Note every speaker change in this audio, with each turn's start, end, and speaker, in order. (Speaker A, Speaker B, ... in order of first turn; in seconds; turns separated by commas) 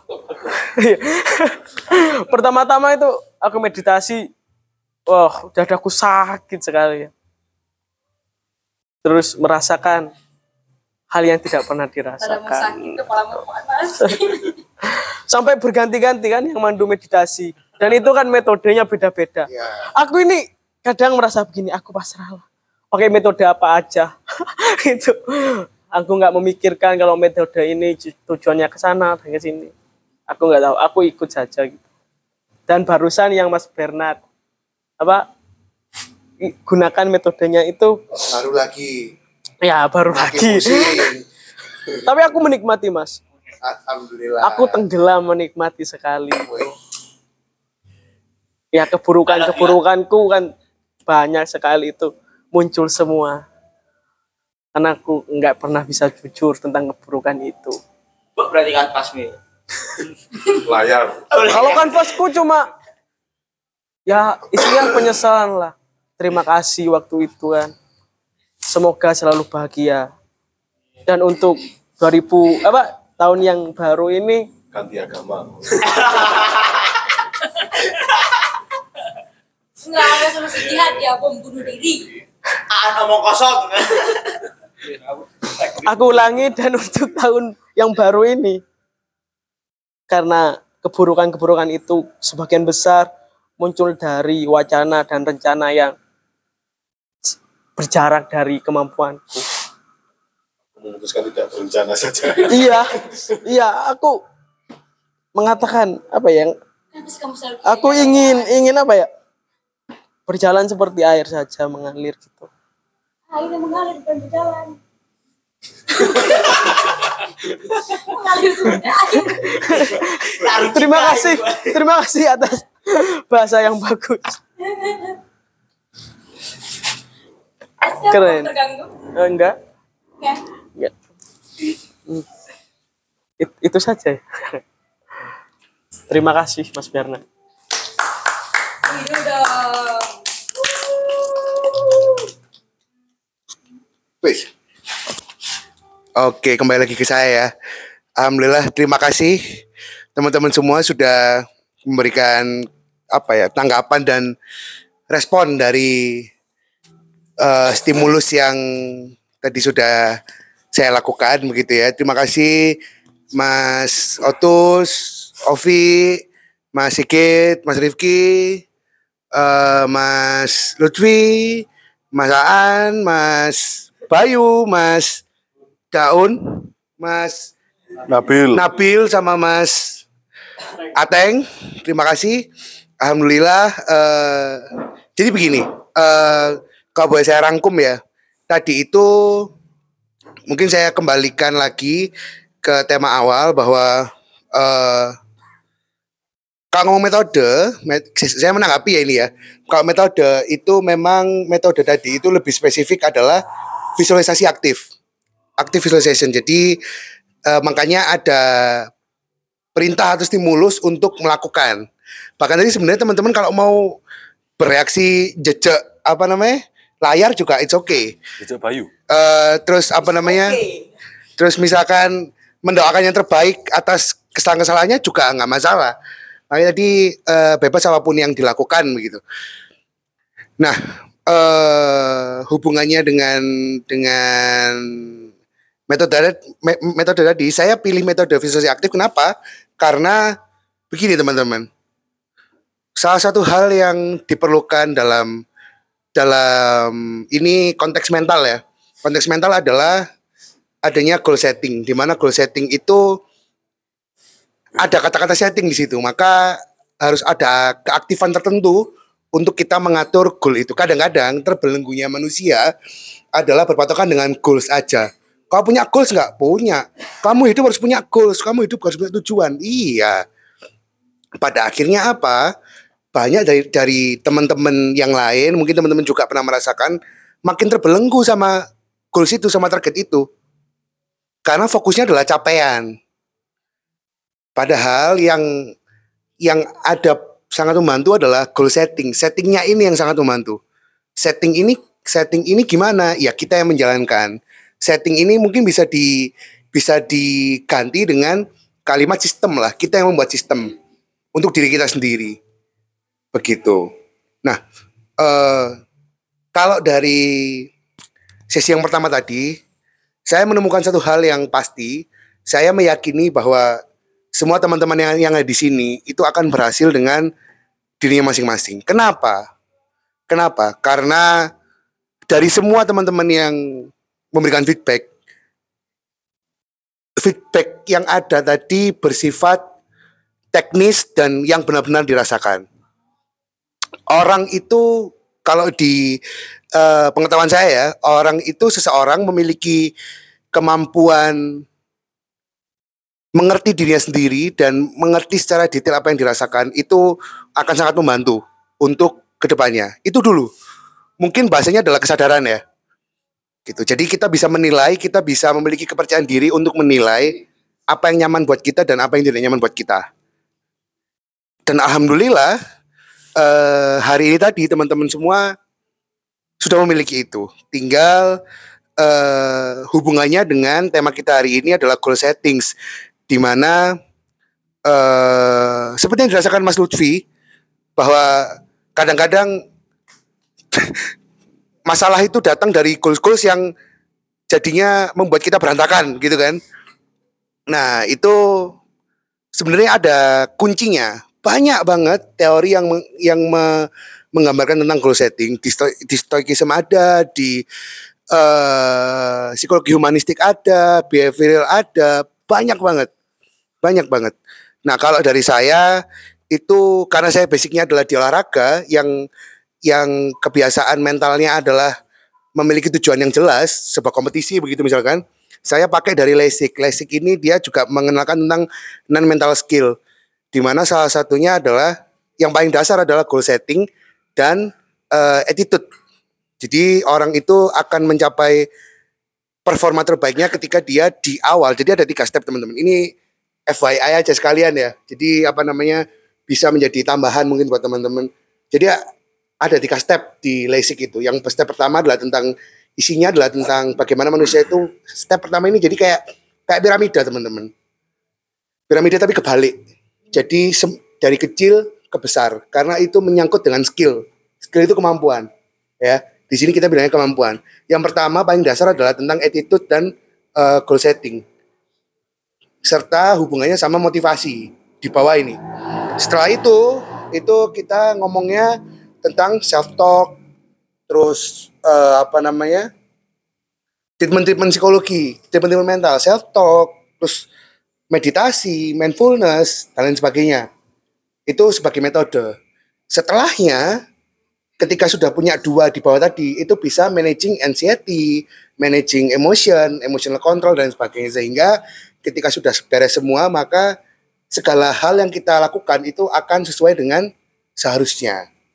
Speaker A: 0.4-4.2, Speaker A: 5.1-7.1, Speaker A: 9.0-10.1, Speaker A: 11.1-12.8, Speaker B: 12.2-14.6, Speaker A: 14.0-29.7, Speaker A: 30.3-31.8, Speaker A: 32.7-34.2, Speaker A: 36.4-38.0, Speaker C: 38.3-39.1, Speaker A: 39.6-41.1, Speaker C: 40.1-41.2, Speaker A: 42.0-43.2, Speaker C: 43.6-44.9, Speaker A: 44.4-46.7, Speaker A: 48.7-50.5, Speaker D: 49.3-49.8, Speaker A: 51.1-53.4, Speaker A: 54.7-57.8, Speaker D: 58.4-59.4, Speaker E: 60.6-61.2, Speaker D: 61.3-62.0, Speaker A: 61.5-62.7, Speaker A: 64.1-67.7, Speaker A: 68.7-70.1, Speaker A: 71.1-74.5, Speaker E: 74.7-76.3, Speaker D: 76.0-76.7, Speaker B: 79.8-82.0, Speaker D: 82.7-84.3, Speaker A: 85.8-88.6, Speaker A: 90.1-93.1, Speaker A: 93.6-96.0, Speaker A: 97.8-99.5, Speaker E: 100.8-103.1, Speaker A: 102.5-104.2, Speaker A: 105.4-106.5, Speaker B: 106.9-108.5, Speaker A: 107.7-109.1, Speaker A: 110.3-112.5, Speaker B: 113.3-114.8, Speaker B: 117.7-119.8, Speaker A: 119.5-124.4, Speaker D: 120.3-121.8, Speaker B: 124.6-125.2, Speaker B: 127.8-128.9, Speaker A: 128.1-128.5, Speaker A: 129.1-129.5, Speaker A: 133.4-134.6, Speaker A: 136.1-137.2, Speaker B: 138.8-140.1, Speaker C: 144.2-144.5, Speaker C: 146.2-147.5, Speaker C: 148.2-149.4, Speaker C: 150.2-154.3, Speaker C: 155.1-156.3, Speaker C: 157.4-160.2, Speaker C: 160.7-162.7, Speaker C: 163.4-166.2, Speaker C: 166.7-168.6, Speaker C: 169.3-175.2, Speaker C: 175.9-177.5, Speaker E: 178.1-178.7, Speaker C: 178.5-180.0, Speaker C: 180.9-182.4, Speaker C: 183.0-188.0, Speaker C: 188.5-189.5, Speaker C: 190.5-192.1, Speaker C: 192.6-195.2, Speaker C: 196.7-203.4, Speaker C: 204.0-204.8, Speaker C: 205.6-206.8, Speaker C: 207.5-208.9, Speaker C: 209.8-211.8, Speaker C: 212.4-214.0, Speaker C: 214.6-218.1, Speaker E: 218.4-218.9, Speaker C: 219.1-220.6, Speaker D: 220.0-220.9, Speaker C: 221.4-225.9, Speaker C: 226.5-229.2, Speaker C: 230.6-235.2, Speaker C: 235.9-240.2, Speaker C: 240.9-241.7, Speaker C: 243.0-245.4, Speaker C: 246.2-250.1, Speaker C: 250.8-253.2, Speaker C: 254.8-262.7, Speaker C: 263.4-270.2, Speaker C: 271.4-272.4, Speaker C: 273.1-278.6, Speaker C: 279.1-280.2, Speaker C: 281.5-282.9, Speaker C: 284.6-285.4, Speaker C: 286.4-290.6, Speaker C: 291.2-300.7, Speaker C: 301.4-302.4, Speaker C: 303.3-303.9, Speaker C: 305.2-305.8, Speaker C: 306.6-307.7, Speaker C: 308.5-309.5, Speaker C: 310.3-313.8, Speaker C: 314.4-317.3, Speaker C: 318.0-319.4, Speaker C: 320.3-321.3, Speaker C: 322.3-325.1, Speaker C: 327.2-329.6, Speaker C: 330.5-332.6, Speaker C: 334.1-336.2, Speaker C: 336.7-339.9, Speaker C: 340.5-341.6, Speaker C: 343.4-347.0, Speaker C: 347.6-350.5, Speaker C: 351.2-352.6, Speaker C: 353.7-360.0, Speaker C: 361.7-362.5, Speaker C: 363.4-365.5, Speaker C: 366.6-368.4, Speaker C: 369.0-372.7, Speaker C: 373.3-373.8, Speaker C: 374.9-377.2, Speaker C: 378.0-379.5, Speaker C: 380.7-381.0, Speaker C: 381.9-383.7, Speaker C: 384.5-386.6, Speaker C: 387.7-388.7, Speaker C: 389.6-397.6, Speaker C: 398.3-403.1, Speaker C: 403.8-404.4, Speaker C: 404.9-405.9, Speaker C: 406.5-409.1, Speaker C: 409.9-411.9, Speaker C: 412.6-419.9, Speaker C: 420.5-425.8, Speaker C: 426.6-428.7, Speaker C: 429.7-433.0, Speaker C: 433.7-439.0, Speaker C: 439.6-447.7, Speaker C: 448.9-449.7, Speaker C: 450.3-455.5, Speaker C: 456.0-461.4, Speaker C: 462.9-465.6, Speaker C: 466.2-470.4, Speaker C: 471.1-472.9, Speaker C: 474.2-477.4, Speaker C: 478.1-480.6, Speaker C: 481.5-482.5, Speaker C: 483.1-483.9, Speaker C: 484.8-493.9, Speaker C: 494.5-498.4